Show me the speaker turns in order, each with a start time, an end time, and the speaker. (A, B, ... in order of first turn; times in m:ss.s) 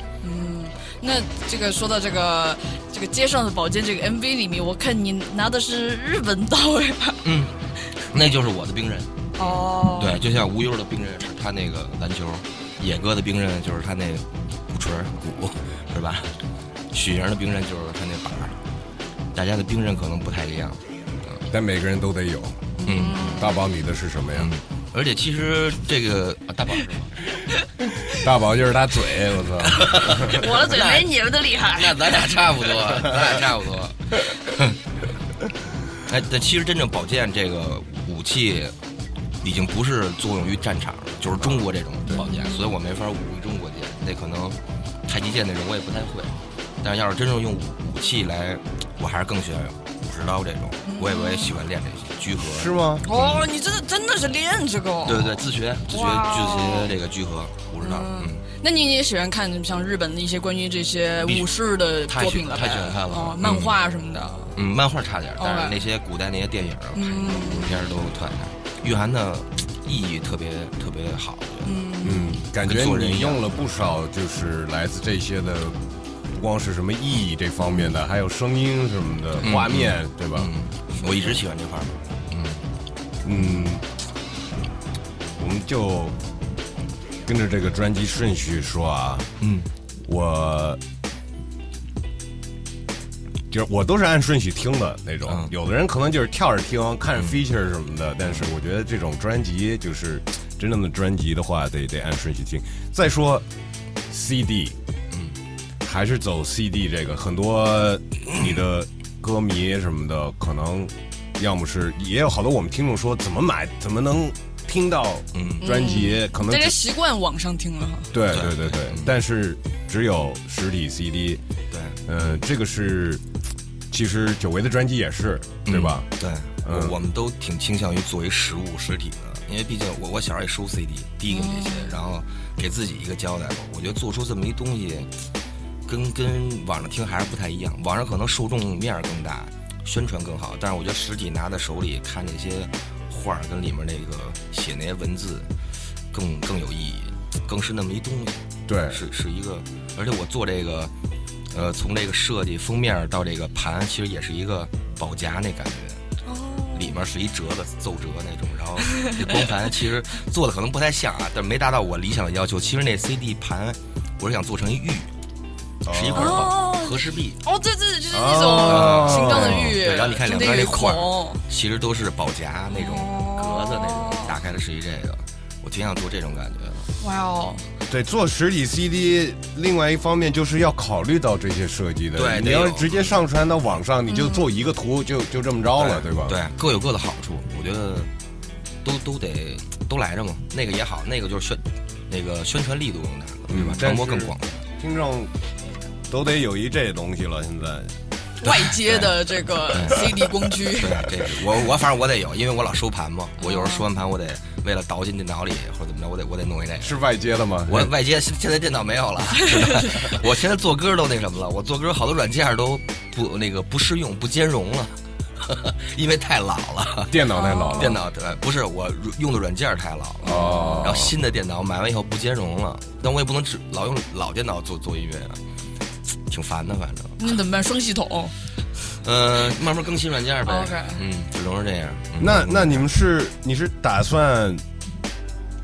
0:00.2-0:07.2 A
0:07.2-0:16.4 B
0:09.4-0:10.2 A
0:16.9-0:18.6 B
0:19.3-0:21.4 B
0:21.5-0:24.5 C
0:22.8-0:23.6 A
0:22.8-0:23.4 B
0:24.3-0:27.2 B
0:27.8-0:30.5 C
0:29.7-0:31.1 B
0:30.1-0:32.2 A
0:31.7-0:34.8 B
0:36.0-0:38.8 B
0:39.4-0:53.5 B
0:42.1-0:42.8 A
0:50.8-0:51.6 A
0:52.4-0:53.1 C
0:53.0-0:56.9 A
0:55.1-0:58.4 B
0:57.8-1:04.6 A
1:01.2-1:01.5 B
1:02.1-1:03.8 B
1:04.6-1:11.8 B
1:05.4-1:05.8 A
1:07.0-1:07.8 A
1:11.6-1:12.5 A
1:12.0-1:15.8 C
1:12.6-1:13.4 B
1:16.3-1:20.5 C
1:19.4-1:22.7 B
1:21.0-1:21.4 A
1:23.2-1:23.9 C
1:23.4-1:23.7 A
1:25.4-1:26.2 C
1:27.2-1:29.3 C
1:29.4-1:29.7 B
1:30.0-1:30.8 C
1:33.5-1:43.5 C
1:35.2-1:35.5 B
1:37.2-1:37.4 B
1:44.1-1:44.8 C
1:45.1-1:45.4 B
1:45.8-1:56.8 C
1:48.3-1:48.6 B
1:55.3-1:55.7 B
1:55.6-1:58.1 A
1:58.1-2:01.4 C
1:58.3-1:59.2 B
2:01.7-2:02.3 B
2:02.1-2:03.2 C
2:03.9-2:06.1 C
2:05.6-2:15.1 B
2:06.6-2:06.9 C
2:11.3-2:12.0 A
2:15.9-2:25.5 B
2:26.1-2:30.9 B
2:28.7-2:29.0 C
2:31.5-2:36.0 B
2:36.2-2:37.0 A
2:36.7-2:45.1 B
2:38.9-2:39.5 A
2:45.8-2:46.5 C
2:45.9-2:47.4 B
2:46.1-2:51.4 A
2:48.1-2:49.8 C
2:48.6-2:56.9 B
2:52.7-2:54.4 A
2:57.0-2:57.7 A
2:57.9-3:06.4 C
3:02.1-3:03.1 B
3:04.1-3:04.5 A
3:05.8-3:08.1 B
3:08.8-3:14.6 B
3:13.5-3:15.3 C
3:16.1-3:18.0 C
3:18.4-3:21.1 A
3:18.4-3:20.1 B
3:20.7-3:27.0 B
3:23.4-3:23.8 A
3:26.8-3:27.9 C
3:27.7-3:37.2 B
3:29.5-3:30.1 A
3:37.1-3:38.0 C
3:37.3-3:38.0 A
3:37.8-3:45.4 B
3:40.2-3:41.0 A
3:40.2-3:41.1 C
3:46.3-3:47.3 B
3:47.2-3:48.4 A
3:49.0-3:52.8 B
3:50.5-3:51.0 A
3:52.2-3:54.6 C